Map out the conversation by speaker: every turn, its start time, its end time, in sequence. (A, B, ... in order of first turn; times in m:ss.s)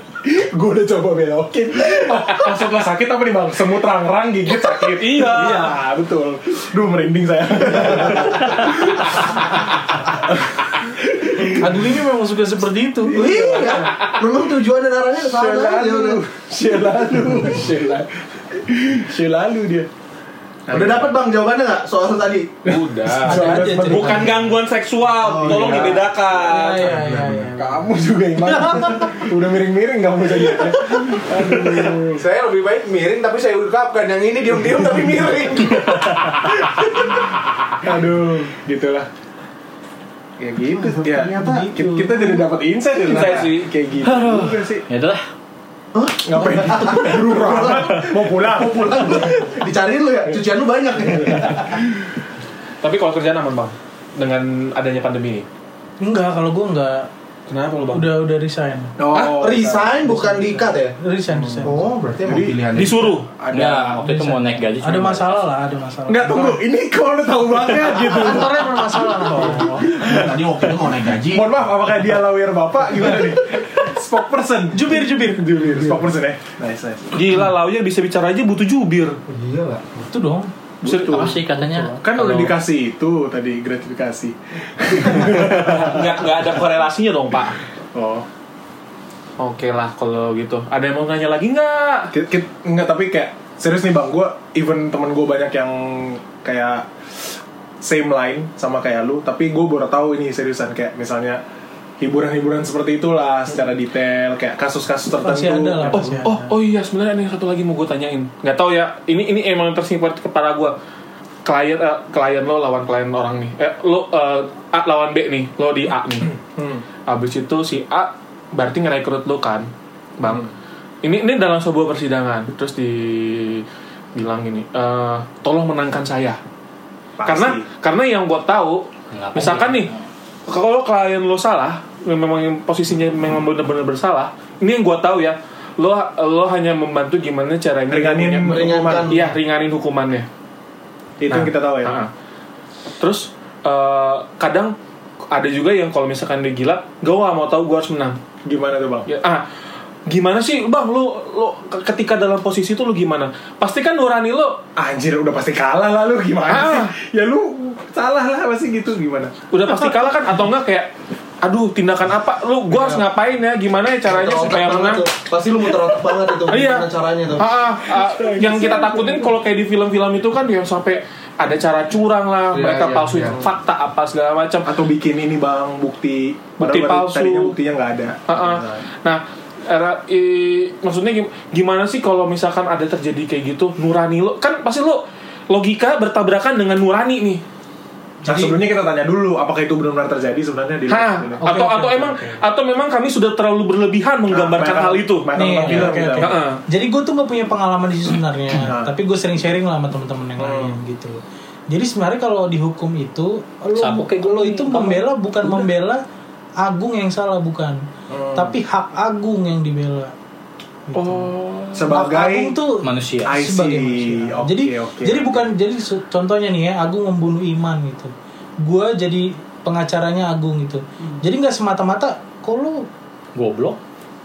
0:00.2-0:11.8 A
0:04.9-0:05.8 B
0:11.5-0:13.3 C
0:13.1-0:14.0 A
0:13.1-0:16.2 D
0:15.2-0:19.9 A
0:20.7-0:21.1 A
0:20.7-0:22.6 D
0:22.6-0:24.4 A
0:22.6-0:27.0 B
0:23.2-0:24.4 C
0:25.2-0:26.1 D
0:25.4-0:26.1 A
0:26.3-0:29.3 C
0:26.9-0:27.4 D
0:27.6-0:32.2 A
0:31.4-0:37.2 D
0:37.8-0:39.1 A
0:40.4-0:44.8 A
0:40.7-0:41.7 D
0:41.4-0:42.5 C
0:43.0-0:43.7 B
0:44.0-0:45.2 E
0:45.9-0:51.8 D
0:46.2-0:49.4 A
0:51.1-0:51.6 A
0:52.8-0:55.5 B
0:56.0-0:57.1 C
0:57.5-0:58.1 B
0:57.9-0:59.0 C
0:59.0-1:00.0 A
0:59.1-0:59.5 B
0:59.2-1:01.0 D
1:00.0-1:01.9 C
1:01.3-1:01.7 A
1:01.6-1:03.1 D
1:02.2-1:02.6 A
1:02.7-1:03.3 B
1:03.3-1:04.0 A
1:03.5-1:05.5 E
1:04.0-1:06.6 C
1:06.1-1:10.3 A
1:07.8-1:09.9 C
1:09.3-1:11.6 D
1:11.3-1:17.2 A
1:14.7-1:15.9 C
1:17.1-1:19.2 B
1:19.3-1:19.9 D
1:20.1-1:20.5 C
1:20.8-1:26.1 A
1:20.8-1:21.4 B
1:21.1-1:22.5 E
1:25.6-1:27.6 B
1:27.9-1:28.3 A
1:29.4-1:32.1 B
1:32.1-1:41.4 A
1:42.0-1:46.2 A
1:45.2-1:46.5 C
1:45.9-1:50.8 B
1:51.4-1:56.3 B
1:56.4-1:56.8 A
1:57.1-1:59.7 B
2:00.2-2:00.5 B
2:01.0-2:06.4 B
2:07.2-2:07.6 A
2:07.2-2:09.9 B
2:09.1-2:10.0 E
2:10.5-2:20.3 B
2:17.9-2:19.2 A
2:18.4-2:19.2 D
2:21.2-2:22.0 A
2:21.3-2:22.1 B
2:23.0-2:24.8 B
2:25.3-2:28.2 B
2:28.4-2:29.1 A
2:29.1-2:29.4 B
2:30.1-2:34.6 B
2:34.8-2:39.4 A
2:36.5-2:36.9 B
2:39.5-2:40.9 B
2:41.4-2:45.0 B
2:42.7-2:43.0 D
2:44.0-2:47.5 D
2:46.5-2:54.7 B
2:47.9-2:49.3 A
2:52.5-2:53.4 D
2:54.6-2:58.8 A
2:56.6-2:57.6 B
2:58.3-3:07.4 B
3:08.2-3:08.6 C
3:08.3-3:11.4 A
3:10.9-3:16.6 B
3:11.4-3:12.4 C
3:14.3-3:16.4 A
3:15.4-3:26.0 C
3:18.6-3:18.9 A
3:20.4-3:20.8 A
3:23.8-3:25.7 E
3:26.6-3:27.8 C
3:28.1-3:28.6 A
3:28.3-3:30.1 C
3:30.9-3:31.3 C
3:31.0-3:31.8 B
3:31.7-3:32.6 A
3:31.9-3:42.9 C
3:32.8-3:33.4 E
3:33.2-3:35.5 A
3:43.4-3:43.8 E